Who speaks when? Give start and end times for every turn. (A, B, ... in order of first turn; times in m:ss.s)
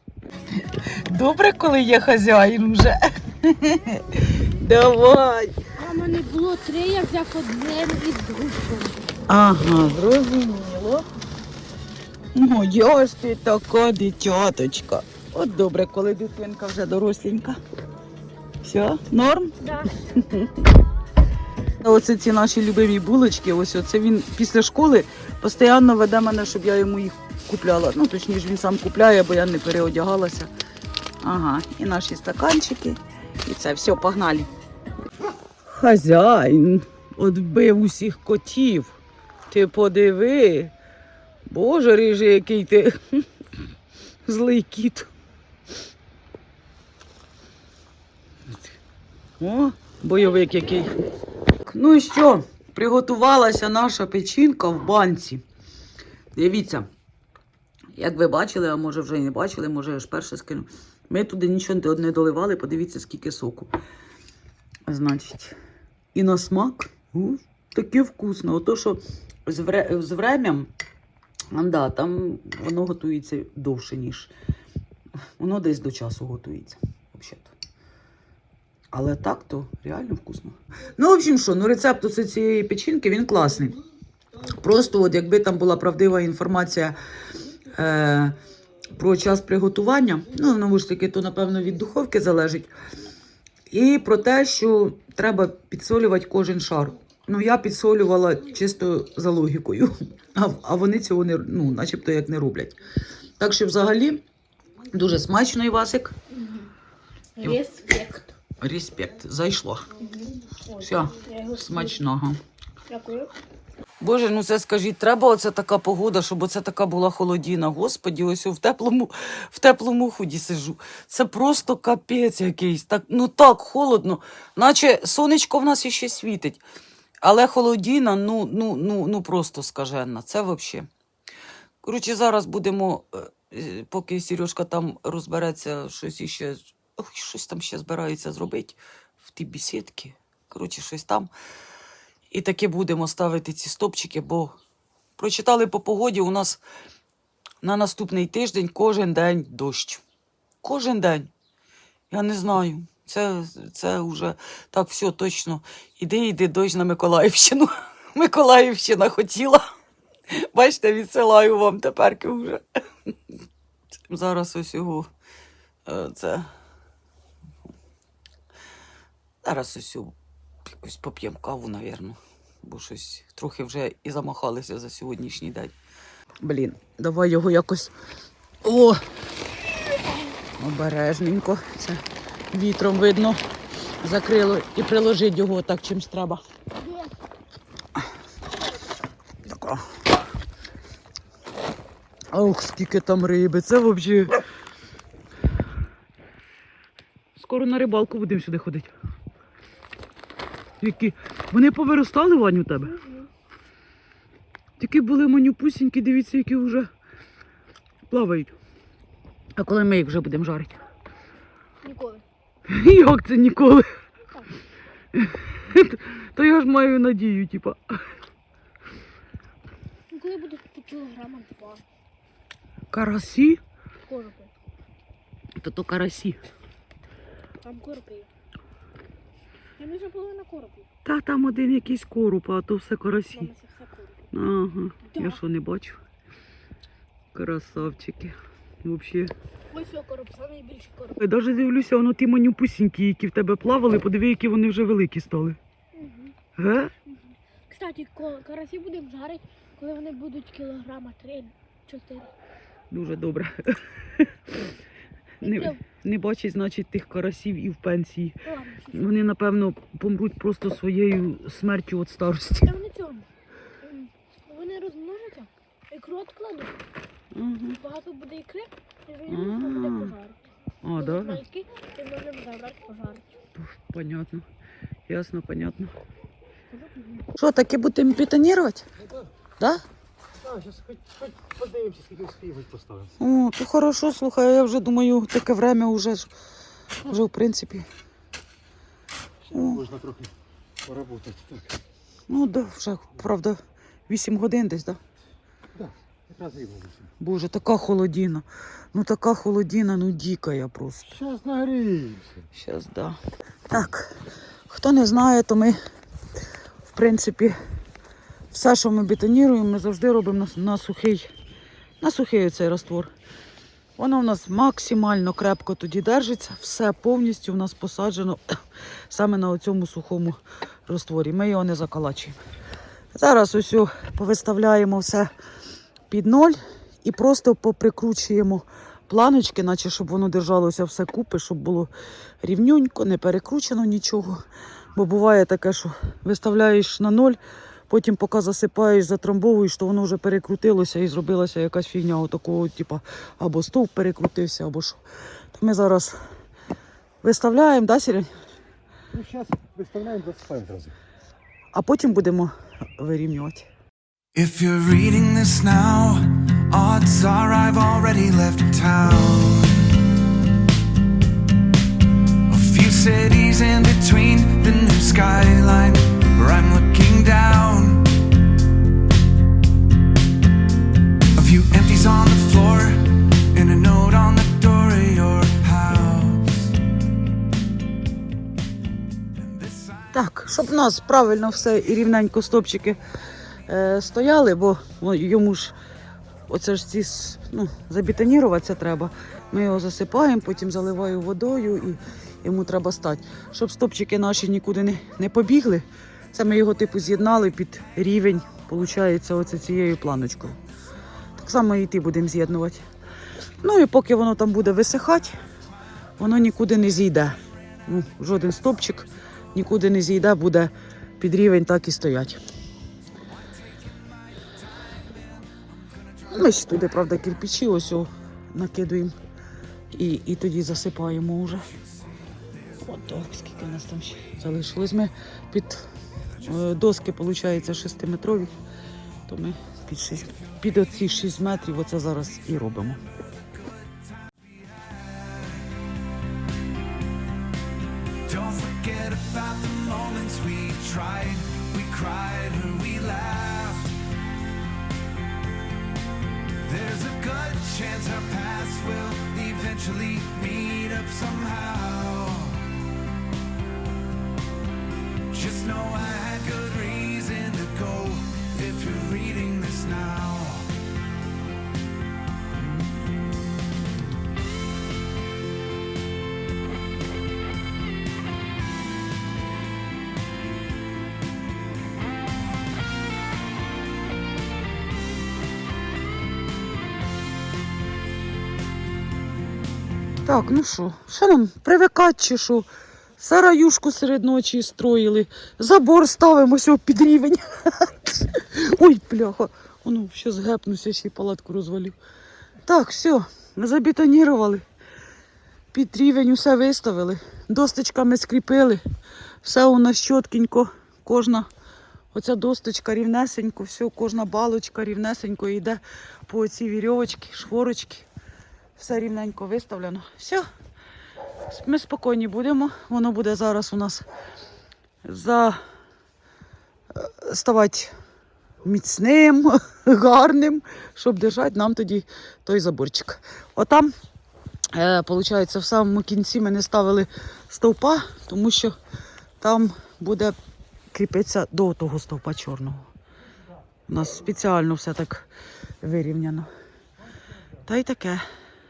0:00.6-0:05.5 A
0:05.8-0:09.1 B
0:09.3-0:11.1 A
0:12.3-0:17.6 A
0:18.6-0:20.7 A
0:19.6-0:20.0 B
0:21.8-0:30.5 A
0:31.2-0:34.5 A
0:35.7-0:40.7 A
0:41.5-0:43.2 A
0:44.2-0:45.1 A
0:49.4-0:50.9 A
0:51.6-0:55.4 A
0:56.4-0:56.9 A
0:58.0-1:03.7 A
1:04.9-1:05.6 A
1:06.1-1:10.7 A
1:11.5-1:14.3 A
1:15.4-1:17.6 A
1:18.9-1:23.8 A
1:24.5-1:27.0 A
1:27.7-1:28.4 A
1:29.0-1:32.7 A
1:33.7-1:42.8 A
1:43.4-1:44.2 A
1:44.9-1:46.1 A
1:46.3-1:46.7 B
1:47.4-1:48.4 B
1:48.6-1:49.9 A
1:50.0-1:52.0 B
1:50.8-1:52.4 A
1:52.9-1:53.3 B
1:54.0-2:06.6 A
2:07.2-2:10.9 A
2:11.8-2:21.3 A
2:22.3-2:24.6 A
2:25.2-2:26.6 A
2:27.6-2:30.0 A
2:30.6-2:31.3 A
2:32.1-2:39.7 A
2:40.3-2:43.1 A
2:44.1-2:45.1 A
2:45.9-2:46.5 A
2:49.4-2:50.1 A
2:50.7-2:55.8 A
2:56.4-2:57.9 A
2:58.6-2:59.0 A
3:00.6-3:03.4 A
3:04.0-3:06.4 A
3:06.8-3:07.1 B
3:09.4-3:09.8 A
3:12.3-3:14.4 A
3:17.4-3:18.9 A
3:20.8-3:23.0 A
3:23.0-3:23.2 B
3:24.8-3:26.9 A
3:28.1-3:28.6 A
3:29.6-3:30.8 A
3:31.8-3:32.2 B
3:32.7-3:33.9 A
3:35.1-3:38.0 A
3:40.1-3:41.8 B
3:42.9-3:43.6 A
3:44.1-3:44.5 B
3:45.6-3:46.4 A
3:47.6-3:48.3 B
3:49.8-3:50.9 B
3:51.0-3:53.5 A
3:53.3-3:54.2 B
3:54.3-3:56.0 A
3:55.1-3:55.4 B
3:57.3-3:59.3 A
3:59.7-4:01.2 B
4:01.2-4:05.6 A
4:06.0-4:06.4 B
4:06.6-4:06.9 A
4:07.1-4:12.3 B
4:12.9-4:14.3 A
4:15.4-4:18.4 A
4:15.4-4:15.8 B
4:18.4-4:19.1 B
4:18.9-4:22.8 A
4:22.6-4:23.3 B
4:23.8-4:26.8 B
4:27.3-4:27.8 A
4:27.8-4:30.4 B
4:29.3-4:30.2 A
4:30.8-4:31.4 A
4:31.0-4:33.3 B
4:33.6-4:34.4 A
4:35.1-4:35.9 A
4:36.9-4:37.2 B
4:37.4-4:38.9 A
4:40.4-4:43.1 C
4:43.2-4:46.3 A
4:47.0-4:47.9 A
4:49.5-4:49.9 A
4:49.9-4:50.3 C
4:50.8-4:51.7 C
4:52.3-4:53.6 A
4:54.1-4:55.0 A
4:55.8-4:57.0 C
4:57.2-5:01.2 A
5:01.2-5:02.4 C
5:02.5-5:04.1 A
5:04.7-5:05.8 A
5:06.9-5:07.6 A
5:08.5-5:11.3 A
5:12.0-5:13.1 A
5:14.0-5:18.6 A
5:19.1-5:22.4 A
5:23.1-5:25.3 A
5:26.1-5:31.9 A
5:32.4-5:34.4 A
5:35.0-5:45.0 A
5:45.5-5:46.2 A
5:47.2-5:48.3 A
5:49.1-5:50.9 C
5:51.7-5:53.7 A
5:54.4-6:00.0 D
6:02.5-6:08.3 D
6:11.3-6:16.8 D
6:19.3-6:20.1 D
6:20.1-6:23.0 A
6:23.7-6:25.8 A
6:26.5-6:40.6 A
6:41.4-6:42.8 A
6:43.6-6:45.4 A
6:46.2-6:52.4 A
6:56.3-6:59.1 A
6:59.9-7:01.6 A
7:02.8-7:08.5 A
7:09.3-7:13.0 A
7:14.5-7:15.6 D
7:18.2-7:24.0 D
7:26.6-7:32.8 D
7:35.3-7:40.8 D
8:00.2-8:02.7 A
8:03.2-8:12.0 A
8:12.6-8:14.6 A
8:15.7-8:18.8 A
8:19.4-8:21.5 A
8:22.1-8:28.1 A
8:28.8-8:30.4 A
8:31.5-8:34.0 A
8:35.0-8:35.6 A
8:36.9-8:37.9 A
8:38.6-8:43.9 A
8:44.7-8:48.8 A
8:49.4-8:50.4 A
8:50.9-8:52.9 A
8:53.9-8:55.3 A
8:55.8-8:56.5 A
8:57.6-8:58.2 A